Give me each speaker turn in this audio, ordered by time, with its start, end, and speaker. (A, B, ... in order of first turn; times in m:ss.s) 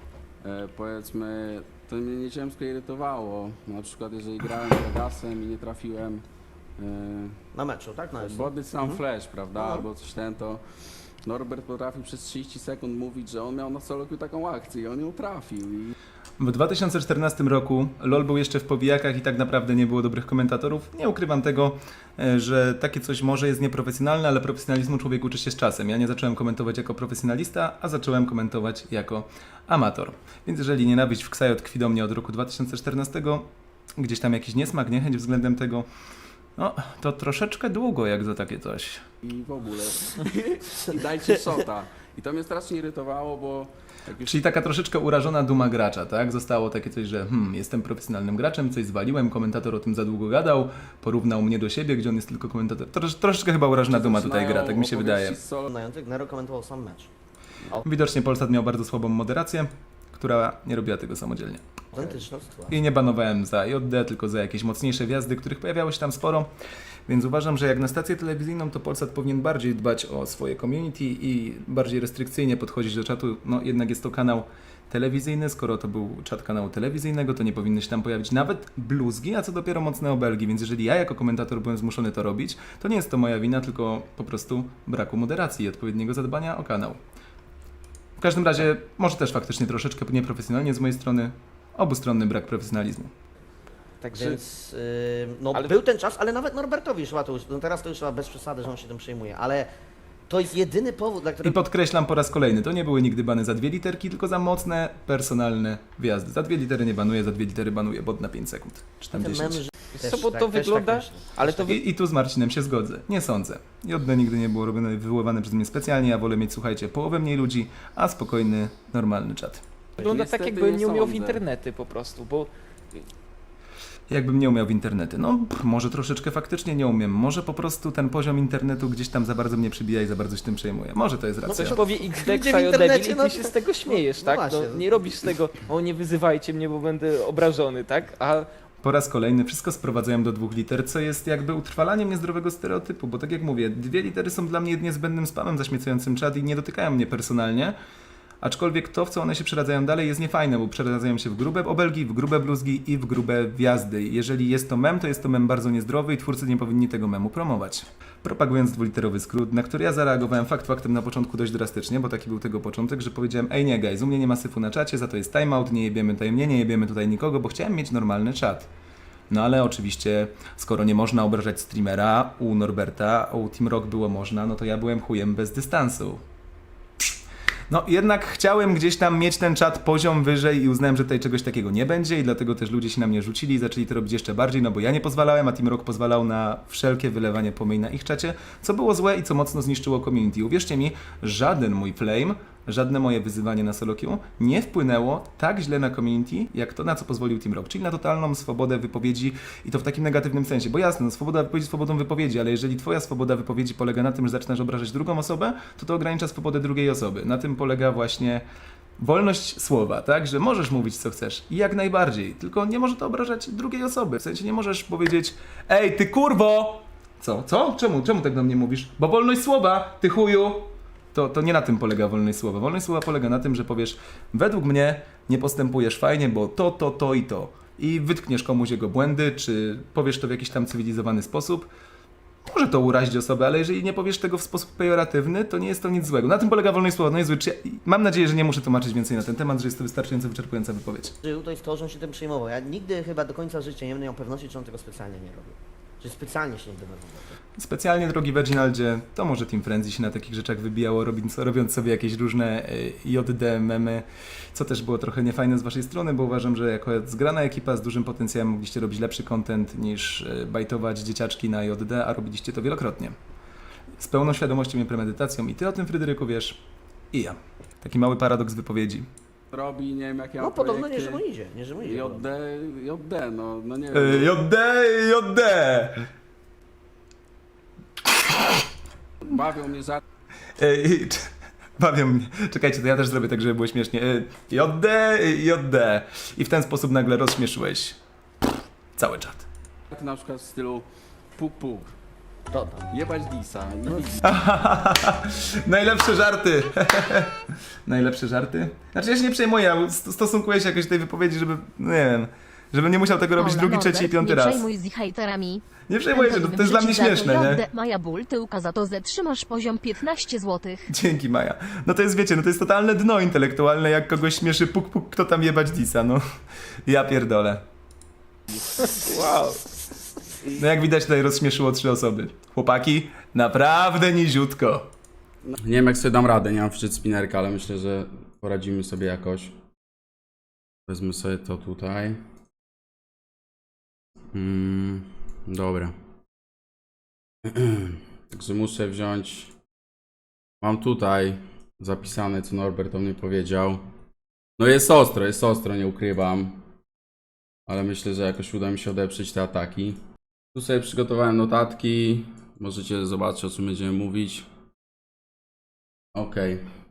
0:00.4-0:06.2 A
0:06.8-0:07.4 A
0:07.5-0:09.0 B
0:08.2-0:10.6 A
0:09.6-0:09.9 B
0:11.2-0:16.0 A
0:16.4-0:33.5 C
0:34.0-0:35.9 C
0:36.6-0:39.0 C
0:39.2-0:44.5 A
0:44.3-0:55.4 C
0:53.9-0:55.7 A
0:55.7-0:57.1 B
0:57.8-1:02.2 C
1:01.9-1:02.8 B
1:02.7-1:06.5 C
1:07.1-1:27.0 C
1:28.2-1:33.1 C
1:34.0-1:34.4 D
1:34.1-1:39.7 B
1:40.3-1:41.6 B
1:41.4-1:49.7 C
1:49.2-1:51.7 B
1:49.9-1:51.8 D
1:51.7-1:59.6 C
2:00.0-2:03.0 D
2:00.0-2:01.4 A
2:04.1-2:11.8 C
2:11.4-2:15.2 B
2:11.5-2:18.5 D
2:18.8-2:27.8 C
2:28.4-2:48.7 C
2:49.3-2:56.2 C
2:57.7-3:28.4 C
3:29.0-3:51.7 C
3:52.5-4:01.2 C
4:01.2-4:07.4 B
4:07.6-4:23.2 C
4:24.0-4:26.6 C
4:27.1-4:29.1 C
4:29.5-4:31.2 A
4:30.4-4:32.3 B
4:31.8-4:34.3 A
4:33.9-4:36.0 C
4:39.2-4:40.0 A
4:40.6-4:48.0 C
4:49.0-4:49.5 C
4:49.9-4:51.9 A
4:52.5-4:52.9 B
4:52.9-4:54.4 A
4:54.2-5:04.7 C
5:03.4-5:10.8 E
5:05.9-5:07.6 C
5:10.9-5:16.2 C
5:16.9-5:17.6 C
5:18.8-5:19.6 D
5:20.6-5:24.9 C
5:25.4-5:29.6 A
5:30.9-5:32.2 A
5:34.3-5:35.9 A
5:37.4-5:39.5 A
5:40.6-5:43.9 A
5:44.6-5:46.6 A
5:47.7-5:50.0 A
5:50.5-5:54.5 A
5:56.2-5:56.6 A